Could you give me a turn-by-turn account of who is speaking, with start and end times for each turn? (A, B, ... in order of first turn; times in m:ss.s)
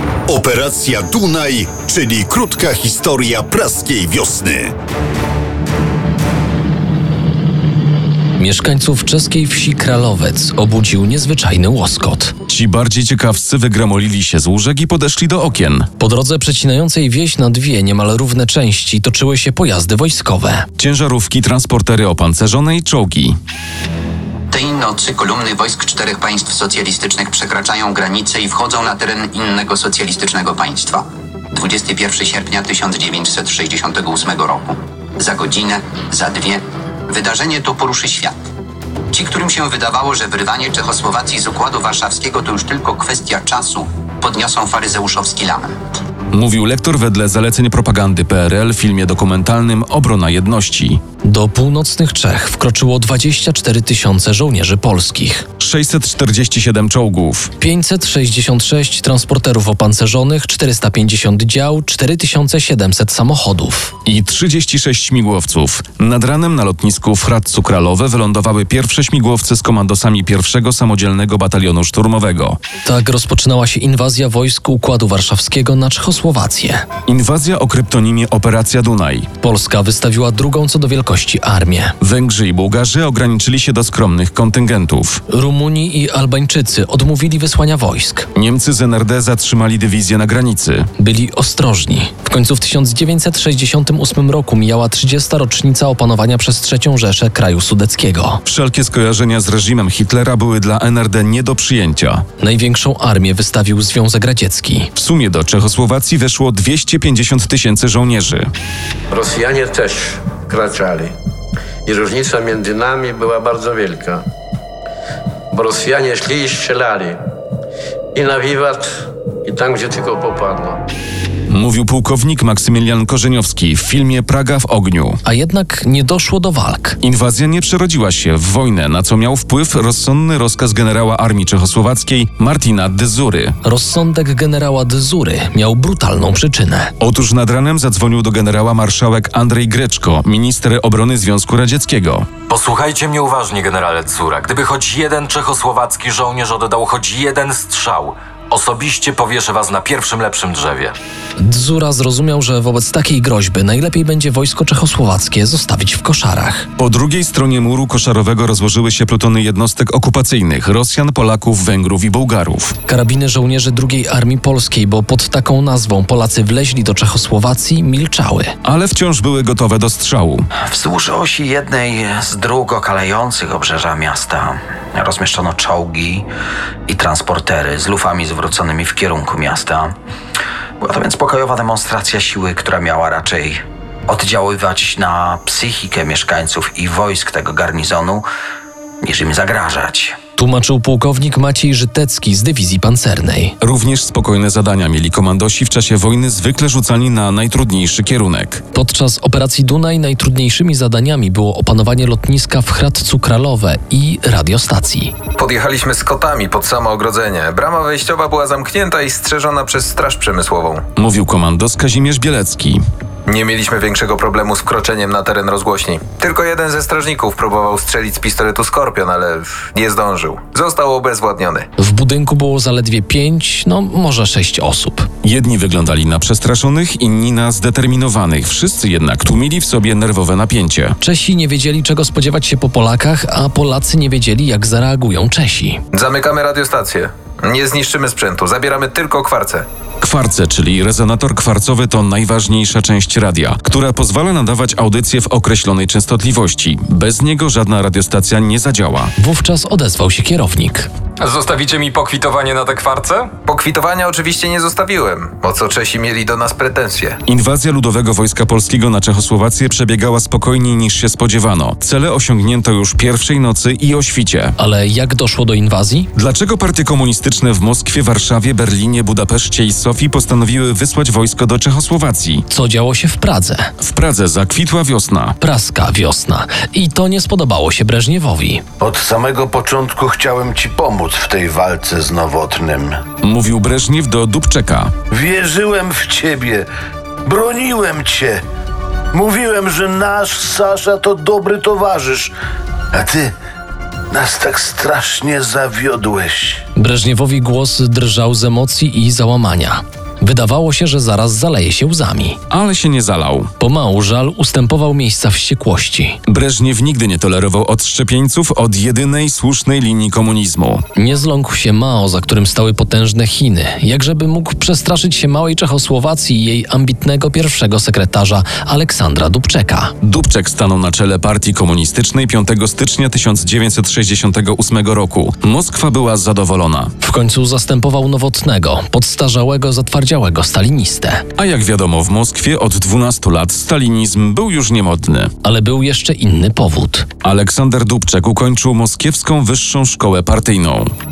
0:00.3-0:04.7 A
0:08.4-0:12.4 B
0:12.5-0:15.9 C
0:16.0-0:20.7 B
0:20.8-0:23.4 C
0:24.5-0:38.3 D
0:39.1-0:45.8 D
0:46.3-0:51.0 C
0:51.2-0:55.5 B
0:55.6-0:57.5 C
0:57.6-1:04.0 B
1:04.0-1:12.6 C
1:12.8-1:16.9 B
1:17.1-1:19.3 C
1:19.4-1:22.0 B
1:22.0-1:25.2 C
1:25.3-1:28.3 B
1:28.3-1:30.9 C
1:31.0-1:38.4 B
1:38.4-1:42.2 C
1:42.4-1:44.9 B
1:45.0-1:48.5 C
1:49.1-1:51.1 E
1:51.9-1:54.2 E
1:55.5-1:57.2 E
1:58.2-2:00.8 E
2:01.5-2:05.2 C
2:05.2-2:07.0 B
2:07.0-2:13.6 C
2:13.6-2:16.9 B
2:17.0-2:22.3 C
2:22.5-2:30.9 F
2:31.4-2:36.7 B
2:36.8-2:42.8 C
2:42.9-2:48.6 B
2:48.6-2:50.5 C
2:50.7-2:56.3 G
2:56.9-3:00.0 G
3:00.8-3:08.3 G
3:09.0-3:10.2 G
3:10.4-3:13.6 B
3:13.6-3:18.6 C
3:18.7-3:25.1 B
3:25.4-3:30.8 H
3:31.0-3:32.8 C
3:33.3-3:41.7 H
3:41.8-3:45.1 B
3:45.2-3:51.0 C
3:51.0-3:55.8 B
3:55.9-3:59.7 H
4:00.0-4:09.1 C
4:09.2-4:10.9 B
4:11.2-4:13.3 I
4:13.4-4:17.2 H
4:17.3-4:24.6 C
4:24.6-4:26.1 B
4:26.2-4:32.4 C
4:32.5-4:33.7 B
4:33.8-4:35.4 C
4:35.4-4:38.6 B
4:38.8-4:43.0 J
4:43.2-4:44.9 C
4:45.1-4:46.7 J
4:47.2-4:48.4 J
4:49.1-4:52.3 J
4:52.9-4:53.3 J
4:54.1-4:56.6 J
4:56.8-5:02.4 B
5:02.5-5:03.5 C
5:03.6-5:06.2 B
5:06.3-5:10.8 C
5:11.0-5:19.9 B
5:20.0-5:26.9 C
5:27.0-5:31.2 B
5:31.4-5:35.3 C
5:35.4-5:37.1 B
5:37.2-5:40.9 C